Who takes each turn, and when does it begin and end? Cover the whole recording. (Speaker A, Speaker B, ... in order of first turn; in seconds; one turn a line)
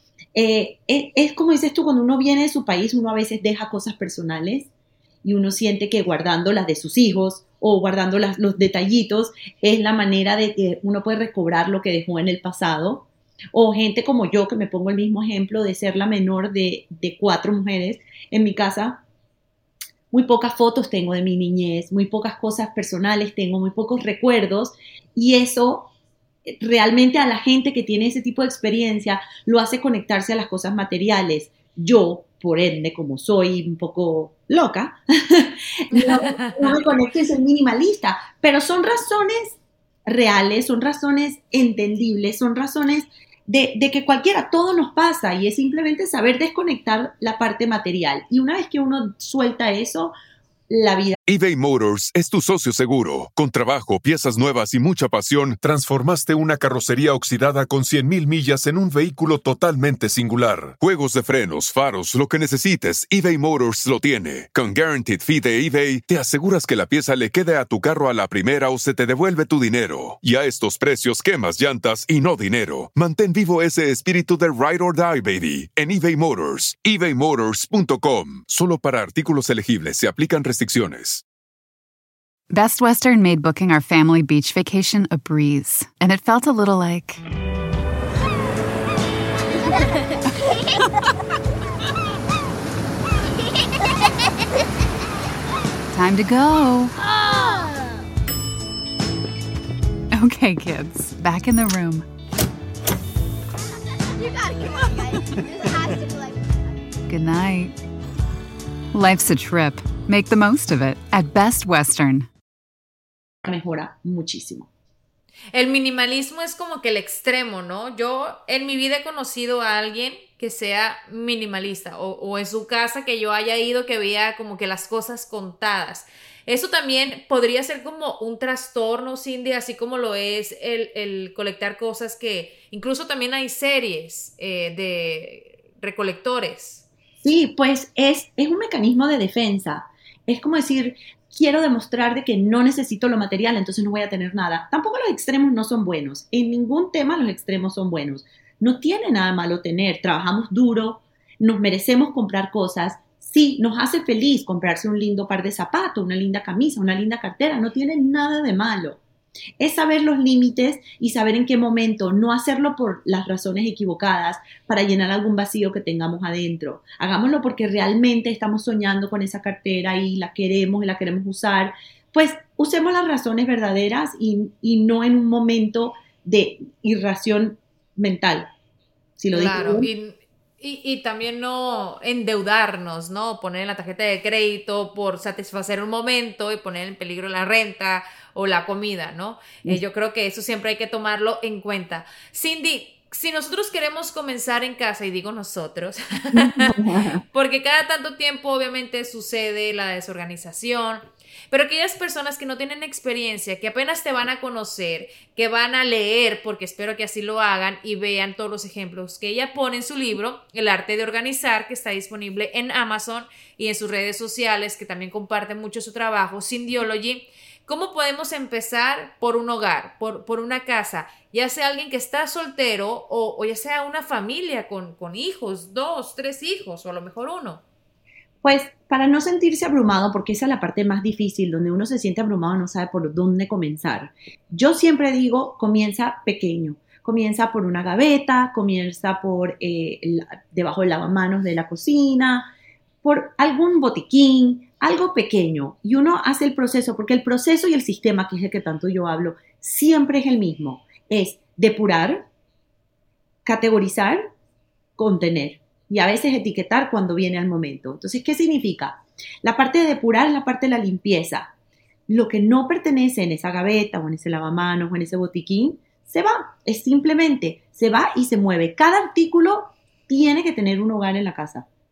Speaker A: 0.3-4.7
Speaker A: 5.2-19.0
Speaker A: 20.1-25.9
Speaker A: 26.5-50.1
Speaker B: 35.9-36.9
Speaker A: 50.7-51.2
Speaker C: 51.3-81.2
Speaker D: 82.5-87.2
Speaker D: 95.9-97.0
Speaker D: 100.1-102.1
Speaker E: 104.1-106.8
Speaker D: 107.1-107.7
Speaker D: 108.9-112.3
Speaker A: 113.4-114.7
Speaker B: 115.5-136.9
Speaker A: 137.2-159.0
Speaker A: 159.6-178.5
Speaker A: 179.2-179.9
Speaker B: 179.3-196.8
Speaker A: 196.3-197.2
Speaker B: 197.3-227.6
Speaker A: 228.4-242.5
Speaker A: 243.0-252.3
Speaker A: 253.4-254.2
Speaker A: 255.0-261.5
Speaker A: 262.1-271.7